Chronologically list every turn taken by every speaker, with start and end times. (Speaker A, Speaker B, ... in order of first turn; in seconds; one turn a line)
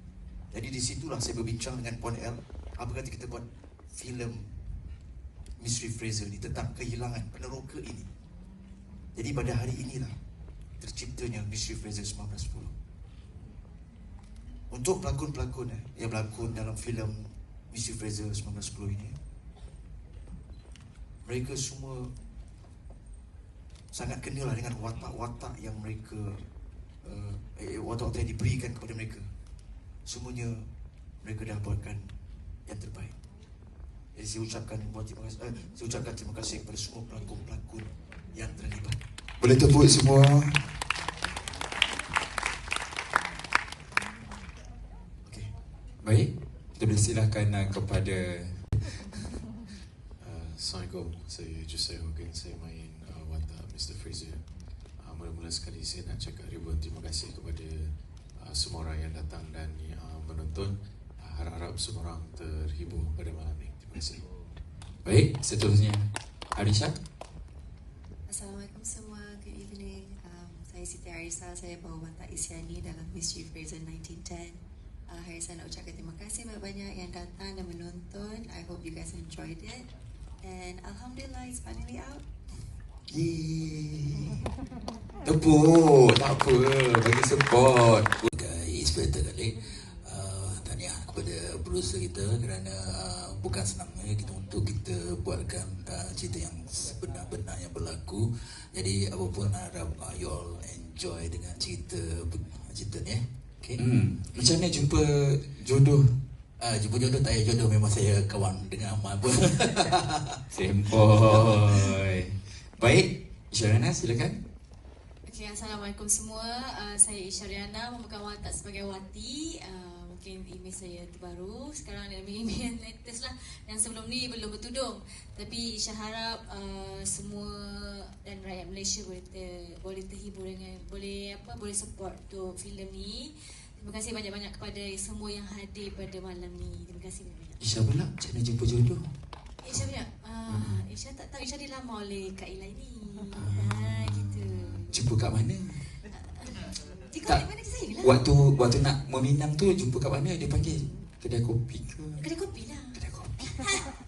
Speaker A: 0.5-4.5
Speaker A: 5.6-8.1
Speaker A: 9.1-10.1
Speaker A: 10.8-12.7
Speaker A: 14.7-19.1
Speaker A: 21.2-22.1
Speaker A: 23.9-26.4
Speaker A: 27.0-29.3
Speaker A: 30.1-30.6
Speaker A: 31.2-32.1
Speaker A: 32.6-33.1
Speaker A: 34.1-39.0
Speaker B: 39.4-40.6
Speaker A: 45.2-45.5
Speaker B: 46.0-49.1
Speaker C: 50.2-64.5
Speaker B: 65.0-66.0
Speaker B: 66.5-67.0
Speaker D: 68.3-79.9
Speaker D: 80.4-82.2
Speaker B: 83.1-84.3
Speaker B: 85.2-88.3
Speaker E: 88.4-103.8
Speaker B: 103.8-106.0
Speaker E: 106.6-110.4
Speaker B: 110.5-114.4
Speaker E: 111.2-111.9
Speaker F: 115.2-137.6
Speaker B: 137.6-139.1
Speaker F: 139.6-144.9
Speaker B: 140.5-140.8
Speaker B: 143.3-145.8
Speaker F: 146.1-148.2
Speaker B: 148.0-152.3
Speaker F: 152.2-153.0
Speaker B: 152.9-153.7